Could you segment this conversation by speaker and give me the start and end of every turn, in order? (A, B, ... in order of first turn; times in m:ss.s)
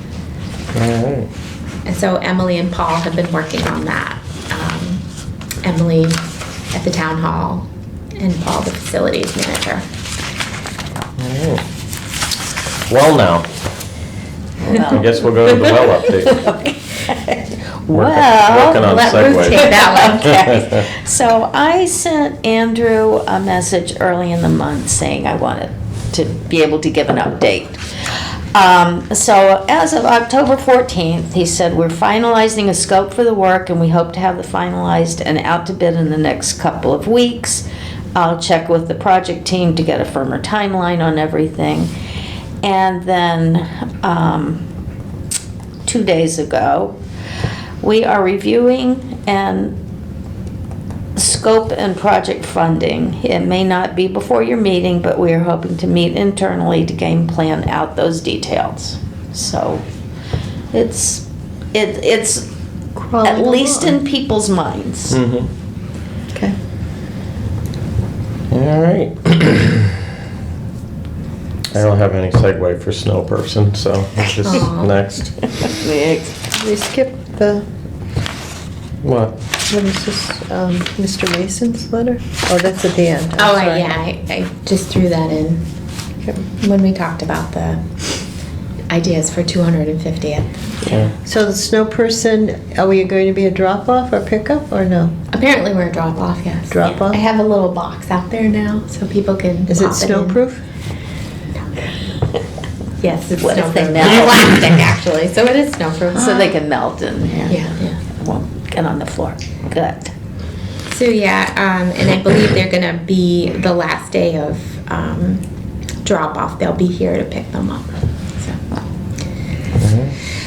0:00.7-0:01.3 A
0:01.8-0:05.0 B
0:05.6-0:06.2 B
0:06.7-0:09.8 B
0:11.2-0:11.6 A
0:12.9-0:13.5 A
0:14.6-0:27.8 C
0:14.8-0:16.4 A
0:17.9-0:20.8 A
0:19.2-0:20.5 B
0:28.5-0:41.9 C
0:42.6-0:44.6 C
0:45.9-0:47.0 C
0:47.8-0:49.8 C
0:51.2-0:59.8 C
1:00.7-1:02.5 C
1:03.0-1:04.0 D
1:03.2-1:05.2 C
1:05.1-1:05.5 A
1:08.5-1:10.0 A
1:11.7-1:15.6 A
1:14.4-1:14.9 B
1:15.6-1:16.4 C
1:16.5-1:17.6 D
1:19.0-1:19.4 A
1:19.7-1:23.9 D
1:23.4-1:25.6 B
1:26.6-1:27.8 B
1:28.9-1:30.9 B
1:30.9-1:31.1 A
1:31.1-1:35.2 D
1:35.3-1:40.4 B
1:36.7-1:37.2 D
1:39.7-1:40.6 D
1:43.0-1:46.6 B
1:43.4-1:44.6 C
1:46.1-1:50.1 C
1:47.5-1:48.0 B
1:50.9-1:55.4 B
1:56.0-1:58.8 B
1:59.8-2:00.2 A